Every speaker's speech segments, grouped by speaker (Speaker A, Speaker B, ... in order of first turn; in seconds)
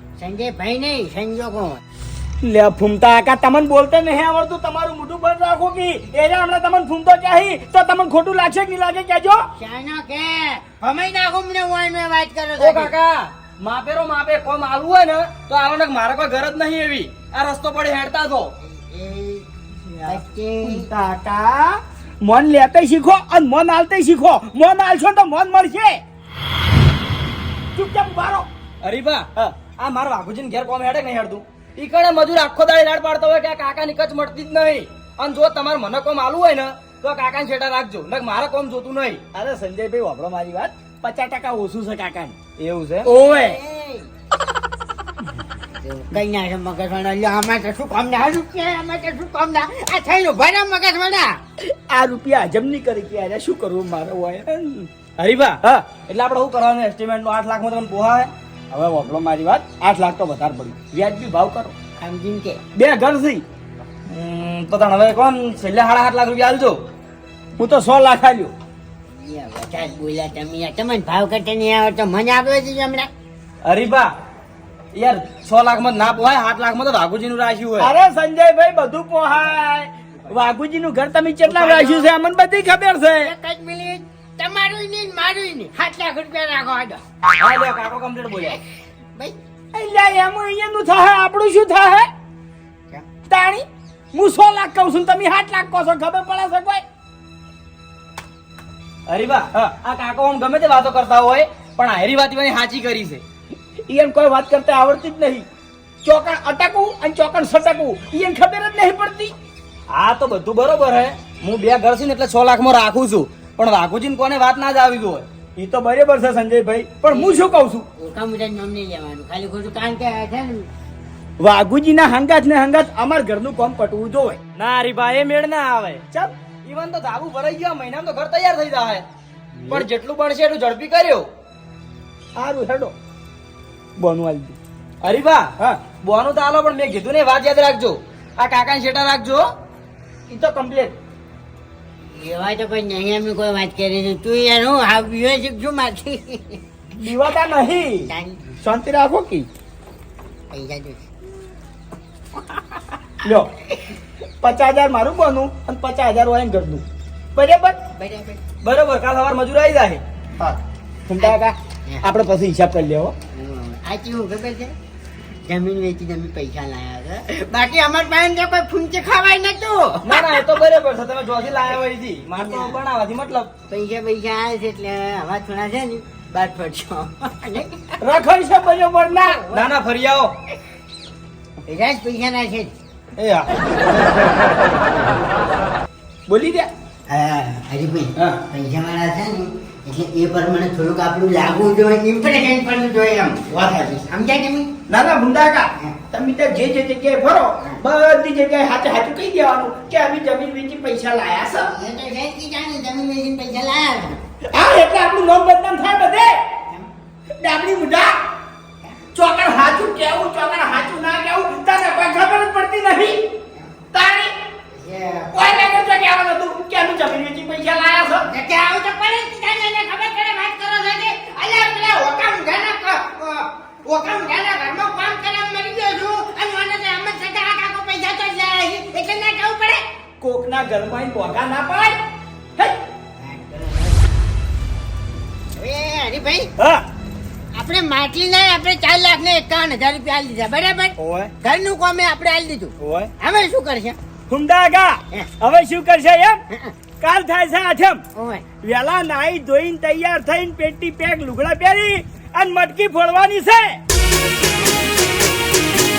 Speaker A: 0.2-1.8, 9.6-12.9, 18.6-19.5, 20.1-20.9, 43.2-44.1, 45.8-51.4, 62.0-62.6, 69.1-73.1, 83.2-87.0, 117.1-117.4, 118.0-120.7, 142.1-146.6, 148.1-148.5, 150.5-151.0, 158.0-158.4, 163.3-164.7, 165.4-170.6, 172.4-172.8, 173.7-177.9, 179.2-179.7, 181.7-182.7, 183.9-184.3, 187.1-194.7, 201.7-204.2, 214.7-215.6, 218.3-229.8, 233.2-234.0, 235.6-236.5, 237.6-244.0, 248.2-248.4
Speaker B: 2.4-9.5, 20.0-26.0, 27.8-28.5, 39.3-42.5, 43.0-43.6, 51.6-54.9, 55.6-55.9, 58.7-61.7, 62.8-63.4, 67.6-68.5, 77.8-83.3, 89.7-92.1, 93.3-96.8, 103.9-105.5, 106.0-109.3, 115.6-117.9, 121.4-124.4, 132.4-132.9, 134.0-134.6, 140.3-140.9, 147.0-149.5, 153.2-153.5, 154.4-156.8, 157.3-157.9, 161.1-163.2, 178.0-179.5, 186.3-186.7, 194.9-201.7, 204.5-206.6, 207.4-208.2, 209.1-213.2, 213.9-214.3, 215.3-218.3, 230.2-232.0, 236.6-236.8, 241.0-241.3, 242.8-243.1, 244.3-246.4, 247.0-248.0, 248.6-253.8
Speaker C: 12.6-18.6, 28.8-39.2, 42.6-43.1, 55.2-58.3, 64.1-66.8, 73.7-74.1, 75.0-77.9, 81.5-81.9, 87.4-88.6, 99.1-103.2, 109.9-115.2, 124.6-126.0, 126.7-129.1, 129.7-131.3, 135.0-139.5, 158.6-160.0, 170.0-173.5, 179.5-180.3, 183.2-183.5